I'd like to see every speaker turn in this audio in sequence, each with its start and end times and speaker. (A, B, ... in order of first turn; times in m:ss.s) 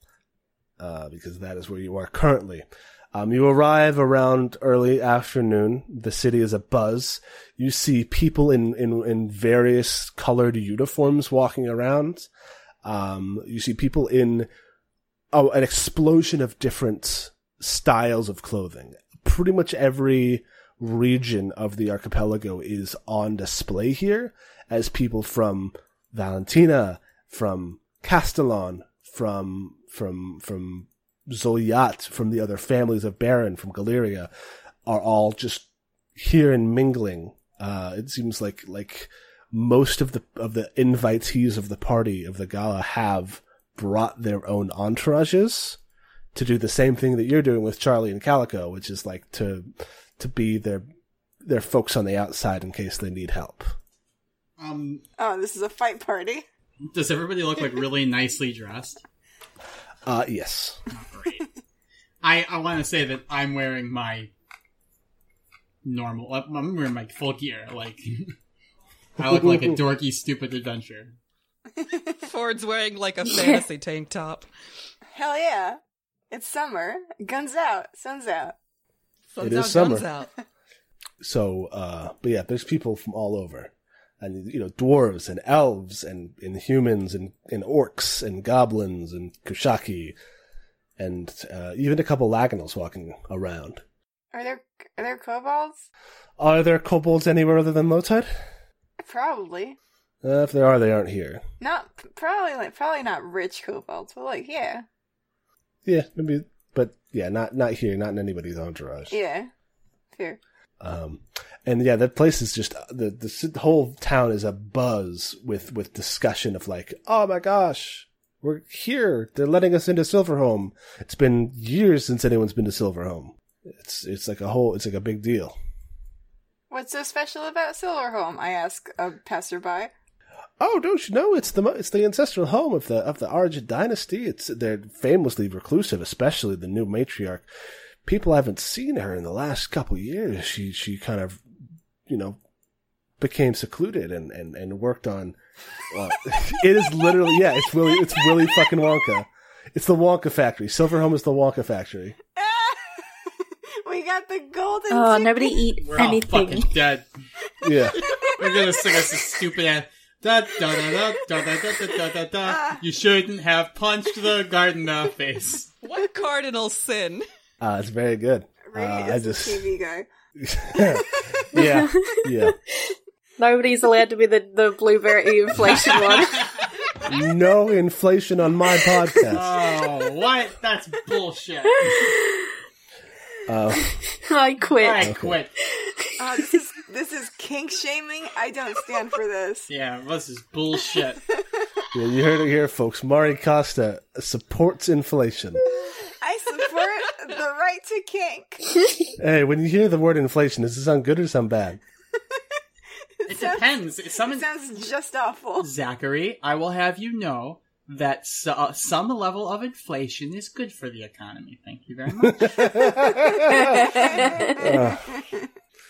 0:00.8-0:12.3 A
0:12.8-0:14.5 A
0:15.3-0:34.3 A
0:34.8-0:45.8 A
0:46.3-0:50.8 A
0:51.4-0:53.7 A
0:54.6-0:55.0 B
0:55.2-0:56.4 C
0:56.9-0:59.0 B
1:00.0-1:00.8 A
1:00.9-1:01.5 B
1:02.2-1:04.3 B
1:05.8-1:08.3 B
1:09.2-1:11.1 B
1:09.3-1:09.7 A
1:11.8-1:12.2 C
1:12.2-1:14.5 D
1:13.2-1:13.6 E
1:15.1-1:15.8 C
1:16.3-1:18.5 C
1:19.3-1:20.3 D
1:19.4-1:20.1 A
1:21.2-1:30.2 A
1:31.0-1:33.8 A
1:34.3-1:35.8 C
1:36.4-1:38.3 A
1:39.0-1:39.8 C
1:40.2-1:41.4 A
1:41.6-1:44.8 C
1:45.8-1:49.1 A
1:49.1-1:49.5 C
1:50.1-1:50.4 C
1:50.8-2:05.5 A
2:06.7-2:09.9 C
2:10.6-2:17.4 A
2:18.0-2:21.4 A
2:22.0-2:22.4 A
2:23.2-2:25.4 A
2:25.9-2:32.2 A
2:28.0-2:28.4 C
2:32.4-2:35.6 C
2:34.9-2:36.8 E
2:35.8-2:37.0 B
2:37.6-2:38.0 A
2:38.0-2:39.3 C
2:38.3-2:45.7 B
2:42.4-2:42.8 C
2:45.8-2:47.2 D
2:47.6-2:49.6 A
2:48.6-2:50.1 C
2:50.4-2:52.6 A
2:51.5-2:52.7 E
2:53.4-2:56.5 E
2:55.6-2:56.7 B
2:57.0-2:59.5 A
2:59.3-3:02.2 B
3:01.8-3:02.5 E
3:03.5-3:03.9 A
3:04.0-3:05.1 E
3:04.8-3:05.5 B
3:05.0-3:05.4 A
3:05.6-3:06.5 E
3:06.2-3:09.7 C
3:09.7-3:11.2 B
3:11.9-3:15.6 A
3:15.7-3:18.8 C
3:19.2-3:21.8 A
3:23.2-3:25.7 C
3:23.3-3:24.5 B
3:25.6-3:33.0 B
3:32.2-3:35.1 A
3:33.8-3:35.4 C
3:34.0-3:34.3 B